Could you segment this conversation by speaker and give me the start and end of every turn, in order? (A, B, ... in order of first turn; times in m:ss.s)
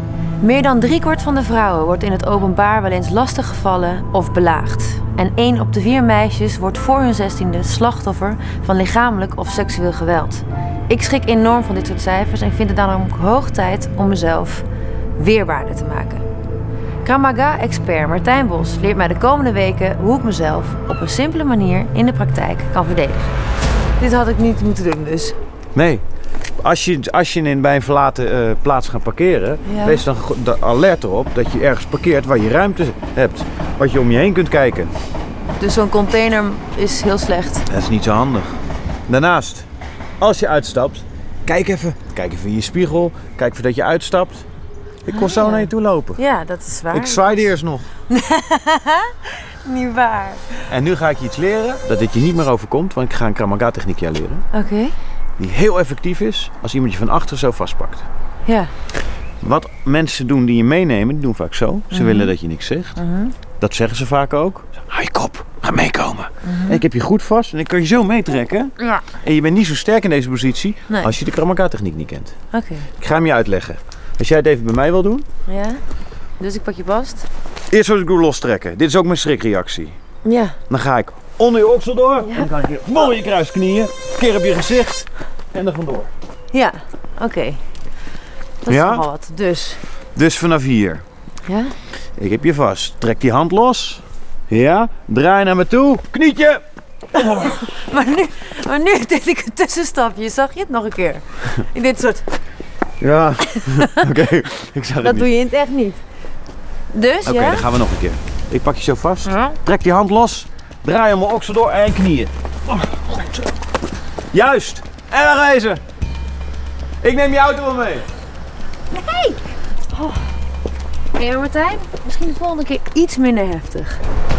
0:00.4-0:16.2 A
0:17.0-0:23.3 A
0:24.0-0:25.4 A
0:25.7-0:26.0 B
0:26.6-0:34.9 B
0:29.6-0:30.0 A
0:35.6-0:37.6 A
0:37.7-0:39.7 B
0:40.2-0:44.4 B
0:45.0-0:46.2 B
0:45.1-0:47.4 A
0:46.9-0:47.9 B
0:48.1-0:50.6 A
0:50.7-0:54.4 B
0:54.5-0:54.9 A
0:55.4-0:58.0 B
0:58.4-0:58.7 A
0:59.4-1:03.0 B
1:01.9-1:02.3 A
1:03.0-1:03.3 A
1:03.6-1:12.3 B
1:06.4-1:06.8 A
1:08.8-1:09.0 A
1:12.5-1:12.9 A
1:13.0-1:15.2 B
1:15.5-1:15.8 A
1:16.4-1:17.3 A
1:17.7-1:20.0 B
1:20.2-1:20.6 A
1:20.7-1:26.1 B
1:26.5-1:27.6 A
1:28.6-1:29.8 A
1:28.7-1:29.0 B
1:30.1-1:31.0 B
1:31.4-1:31.8 A
1:32.2-1:36.6 B
1:37.1-1:37.5 B
1:37.2-1:42.2 A
1:43.0-1:45.3 B
1:43.4-1:44.0 A
1:45.0-1:46.0 A
1:46.9-1:47.6 A
1:47.2-1:53.4 B
1:49.2-1:49.6 A
1:54.3-1:55.8 B
1:57.0-1:58.0 B
1:58.9-2:00.3 A
2:01.1-2:04.0 A